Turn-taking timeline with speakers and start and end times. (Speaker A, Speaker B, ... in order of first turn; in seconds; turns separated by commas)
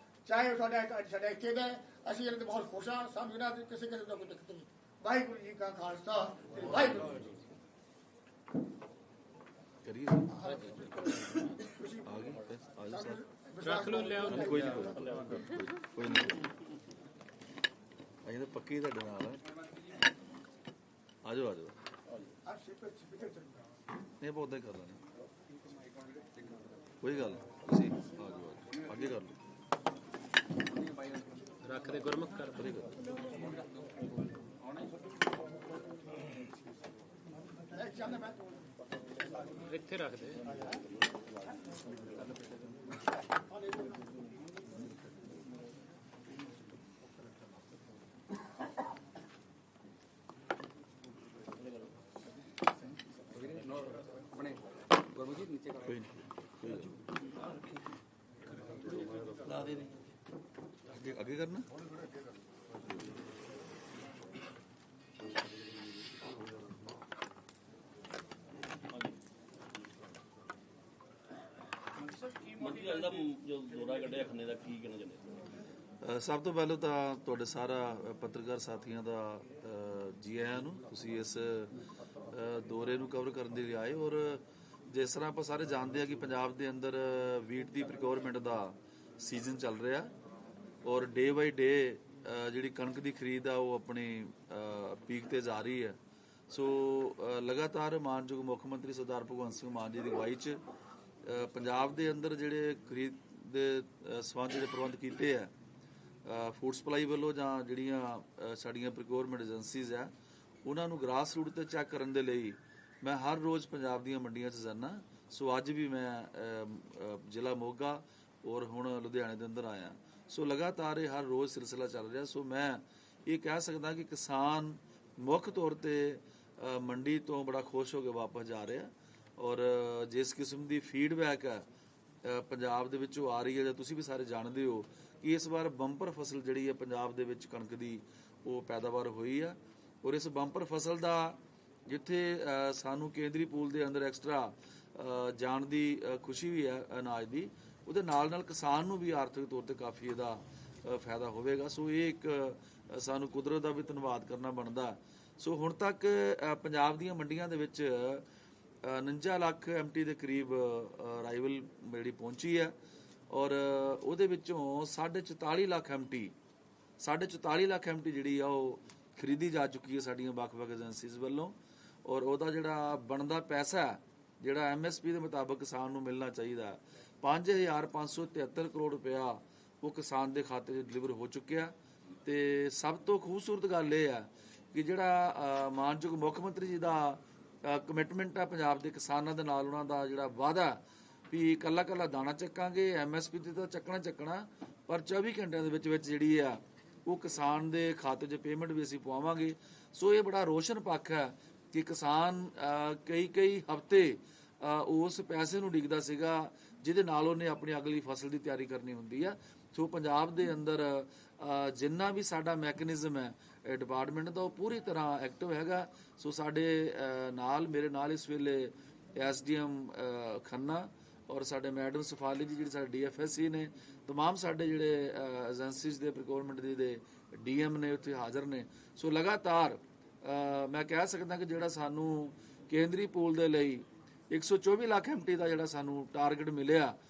Speaker A: 0.2-7.2, Speaker B: 6.7-7.3, Speaker B: 9.8-10.9, Speaker A: 10.4-12.3, Speaker B: 12.0-13.2, Speaker A: 12.9-15.0, Speaker C: 13.6-14.9, Speaker B: 14.2-16.5, Speaker D: 14.8-15.4, Speaker B: 18.2-19.4, Speaker B: 21.2-21.8, Speaker A: 22.4-23.6, Speaker B: 24.2-25.0, Speaker E: 25.6-26.8, Speaker B: 27.0-29.4, Speaker E: 30.7-31.6, Speaker C: 31.6-32.7, Speaker B: 32.5-33.0, Speaker E: 33.1-35.0, Speaker A: 37.7-38.4, Speaker C: 39.7-40.5, Speaker E: 53.1-56.0, Speaker B: 55.9-57.0, Speaker D: 58.9-59.8, Speaker B: 60.9-61.7, Speaker D: 72.5-75.4, Speaker B: 76.0-81.7, Speaker B: 82.3-90.1, Speaker B: 90.8-96.0, Speaker B: 96.5-100.6, Speaker B: 101.2-105.5, Speaker B: 106.2-110.1, Speaker B: 110.6-131.7, Speaker B: 132.2-158.2, Speaker B: 158.8-162.7, Speaker B: 163.3-166.3, Speaker B: 167.0-181.7, Speaker B: 182.2-236.9